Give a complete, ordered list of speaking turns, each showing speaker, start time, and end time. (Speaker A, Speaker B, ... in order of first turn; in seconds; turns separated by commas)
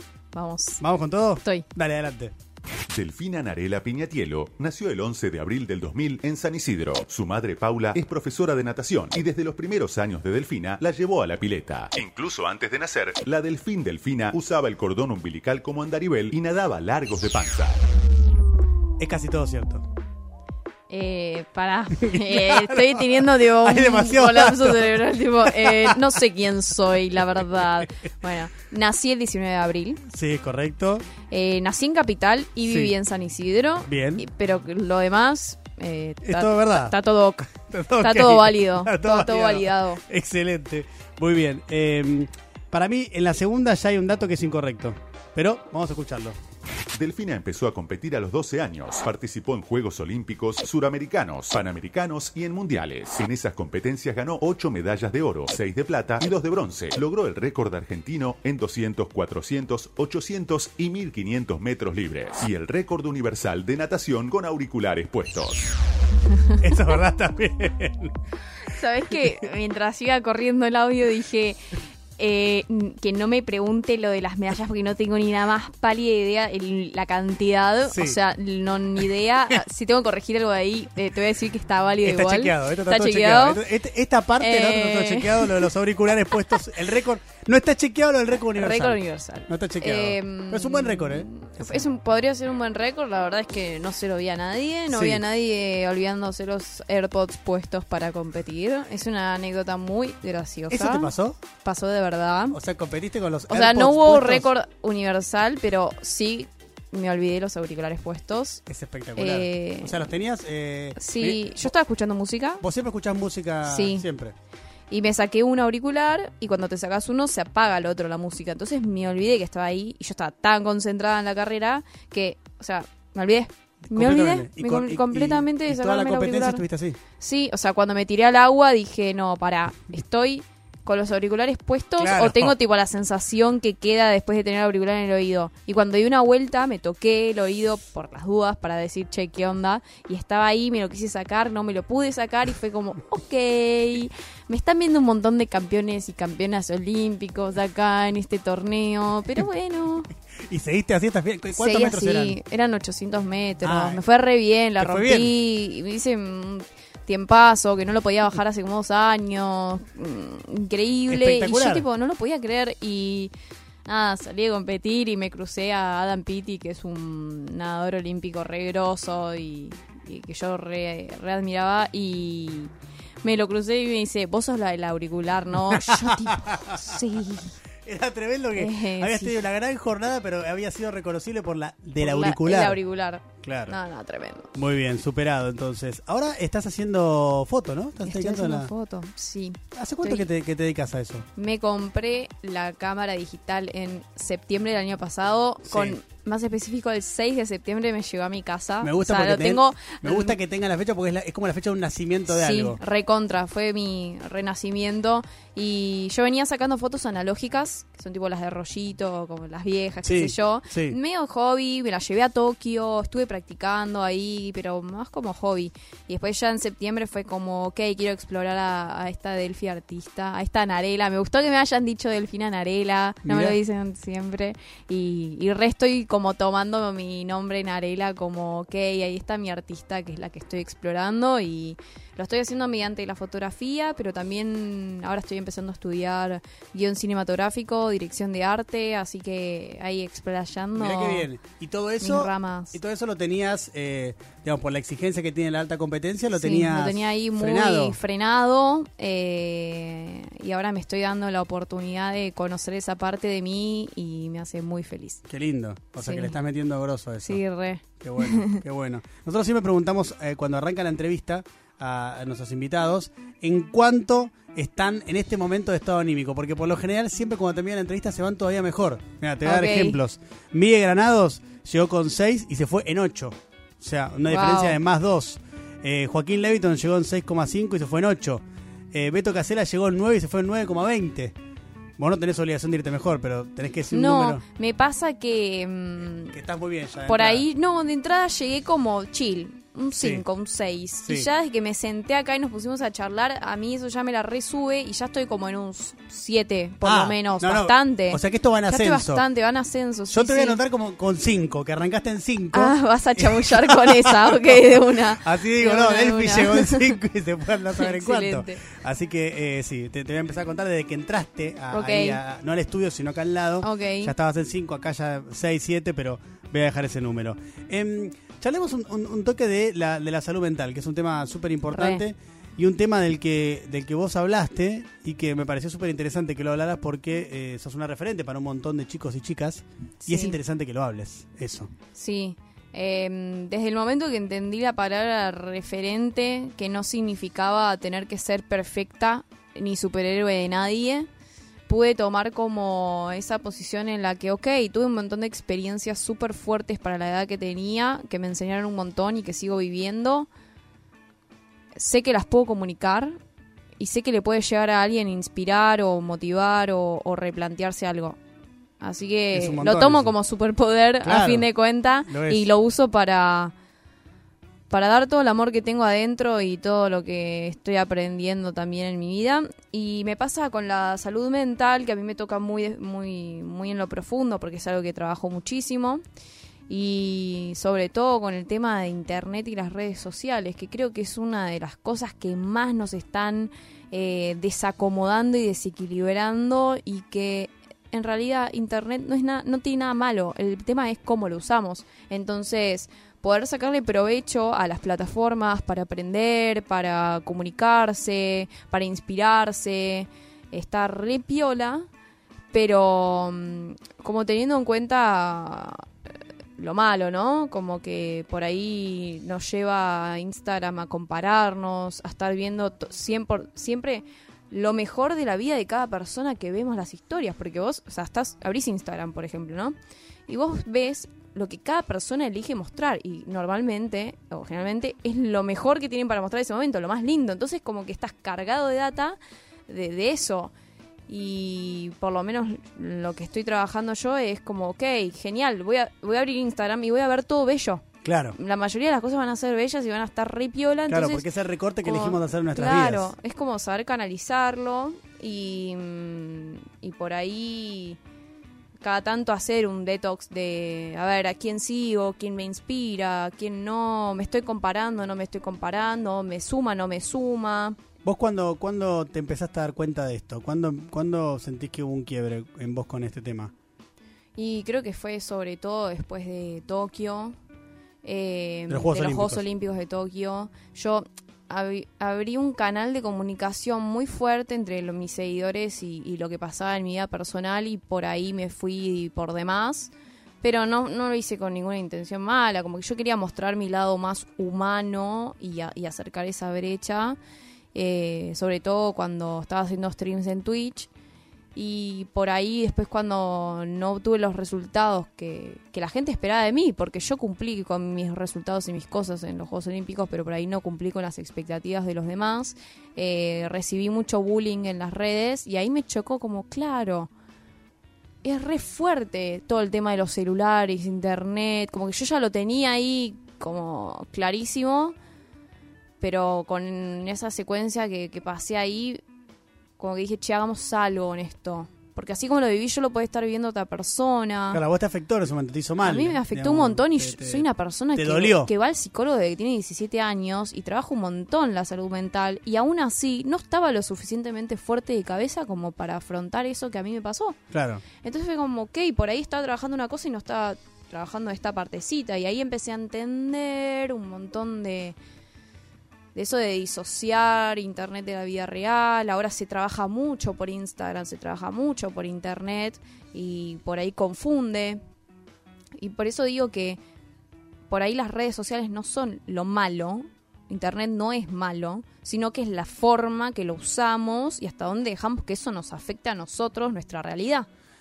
Speaker A: 0.3-0.8, Speaker B: 0.8-2.3, Speaker C: 2.9-17.8, Speaker B: 19.0-19.8, Speaker A: 20.9-30.0, Speaker B: 22.0-26.0, Speaker B: 30.1-31.1, Speaker A: 31.3-40.0, Speaker B: 32.6-32.9, Speaker B: 33.9-34.2, Speaker B: 36.2-36.9, Speaker B: 37.7-46.3, Speaker C: 46.9-65.7, Speaker B: 66.6-68.1, Speaker A: 68.7-83.6, Speaker B: 77.9-78.2, Speaker B: 82.0-91.8, Speaker A: 84.4-85.7, Speaker A: 88.5-102.6, Speaker B: 94.9-95.2, Speaker B: 100.7-101.4, Speaker B: 102.5-104.5, Speaker A: 103.5-108.6, Speaker B: 108.7-111.7, Speaker A: 109.2-110.1, Speaker A: 111.0-112.6, Speaker B: 112.6-114.3, Speaker A: 113.7-114.0, Speaker A: 114.9-126.6, Speaker B: 123.9-127.0, Speaker A: 127.2-150.1, Speaker B: 132.0-132.5, Speaker B: 150.4-152.4, Speaker A: 151.5-163.3, Speaker B: 153.6-154.0, Speaker B: 154.8-155.3, Speaker B: 161.1-161.8, Speaker A: 163.8-177.5, Speaker B: 175.6-177.0, Speaker B: 177.8-182.8, Speaker A: 178.6-179.3, Speaker A: 182.0-184.5, Speaker B: 183.4-183.8, Speaker B: 184.5-188.7, Speaker A: 188.0-190.2, Speaker B: 189.7-191.3, Speaker A: 191.3-200.3, Speaker B: 195.6-195.9, Speaker B: 198.8-202.8, Speaker A: 202.3-241.3, Speaker B: 210.0-211.0, Speaker B: 223.2-223.6, Speaker B: 240.8-248.0, Speaker A: 242.0-242.8, Speaker A: 246.3-255.2, Speaker B: 255.3-257.4, Speaker A: 256.0-256.4, Speaker A: 257.2-258.6, Speaker B: 258.0-281.3, Speaker A: 269.4-270.0, Speaker A: 274.3-274.8, Speaker B: 282.0-284.4, Speaker A: 283.9-286.4, Speaker B: 286.3-287.4, Speaker A: 287.1-300.6, Speaker B: 290.0-290.2, Speaker B: 296.8-299.2, Speaker B: 300.1-331.7, Speaker A: 302.5-306.9, Speaker A: 307.7-308.6, Speaker A: 311.7-312.2, Speaker A: 313.6-314.1, Speaker A: 321.7-322.0, Speaker A: 330.0-330.4, Speaker A: 331.9-341.1, Speaker A: 341.7-350.3, Speaker A: 351.8-353.2, Speaker A: 353.8-358.2, Speaker A: 358.8-363.5, Speaker B: 359.3-360.1, Speaker B: 361.0-361.5, Speaker B: 362.1-362.5, Speaker A: 364.7-376.0, Speaker A: 376.7-401.9, Speaker A: 402.5-405.9, Speaker A: 406.6-419.7, Speaker A: 420.3-429.2, Speaker A: 429.7-430.5, Speaker A: 431.1-441.2, Speaker B: 438.0-438.4, Speaker B: 440.9-443.1, Speaker A: 441.8-448.0, Speaker A: 448.8-457.8, Speaker B: 458.0-463.5, Speaker A: 464.4-467.4, Speaker A: 468.0-487.2, Speaker B: 468.7-469.4, Speaker A: 487.7-490.9, Speaker A: 491.5-507.1, Speaker A: 508.2-514.9, Speaker A: 516.0-519.0, Speaker A: 519.8-524.6, Speaker B: 524.5-528.5, Speaker A: 525.8-537.4, Speaker B: 537.5-537.8, Speaker A: 538.0-545.0, Speaker A: 546.1-554.8, Speaker A: 555.8-556.8, Speaker A: 557.7-567.5